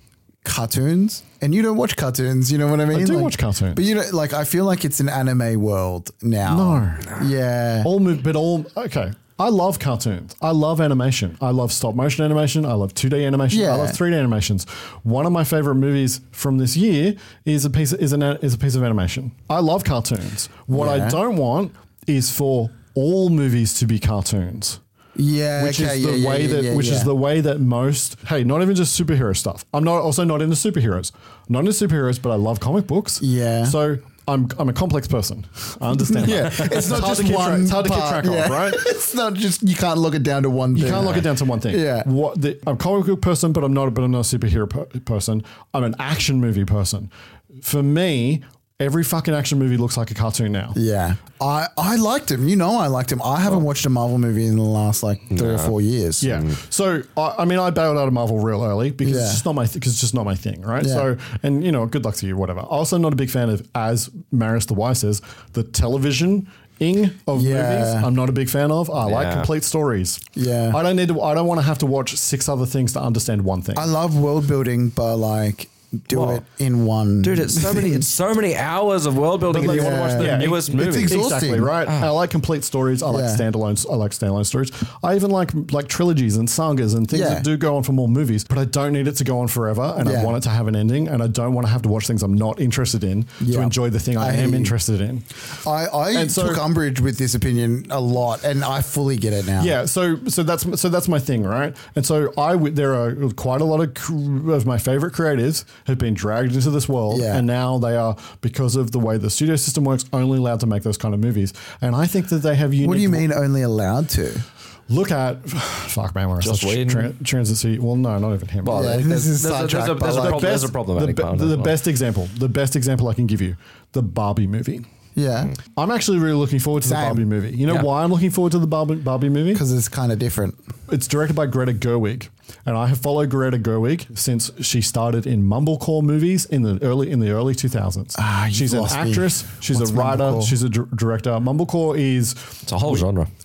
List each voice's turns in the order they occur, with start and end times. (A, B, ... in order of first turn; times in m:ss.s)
0:00.4-0:07.9 A
0:02.9-0:03.9 B
0:06.4-0:07.2 B
0:07.8-0:24.8 B
0:13.5-0:14.0 A
0:20.7-0:21.2 A
0:25.2-0:27.1 A
0:25.6-0:39.0 B
0:33.2-0:33.8 A
0:36.0-0:42.1 A
0:40.7-0:50.8 B
0:50.8-0:56.4 A
0:55.3-0:55.7 C
0:56.2-1:13.9 B
0:59.0-0:59.4 A
1:00.8-1:01.1 A
1:07.3-1:08.1 A
1:09.0-1:09.5 C
1:10.4-1:10.8 A
1:13.8-1:18.1 A
1:16.1-1:16.4 C
1:17.2-1:21.2 C
1:19.5-1:21.7 A
1:19.5-1:35.3 B
1:21.9-1:22.1 C
1:23.1-1:23.4 A
1:27.1-1:27.4 A
1:30.0-1:30.4 A
1:33.4-1:34.7 A
1:35.6-1:39.7 A
1:36.1-1:36.6 B
1:39.6-1:53.3 B
1:47.1-1:47.4 A
1:52.8-1:54.4 A
1:54.9-1:59.0 B
1:56.4-1:57.1 C
1:58.6-2:01.8 C
1:58.7-2:00.7 A
2:00.1-2:04.9 B
2:05.2-2:05.5 A
2:05.8-2:09.6 B
2:06.9-2:07.2 A
2:09.5-2:10.6 A
2:10.9-2:23.1 B
2:18.2-2:20.6 A
2:22.7-2:23.3 C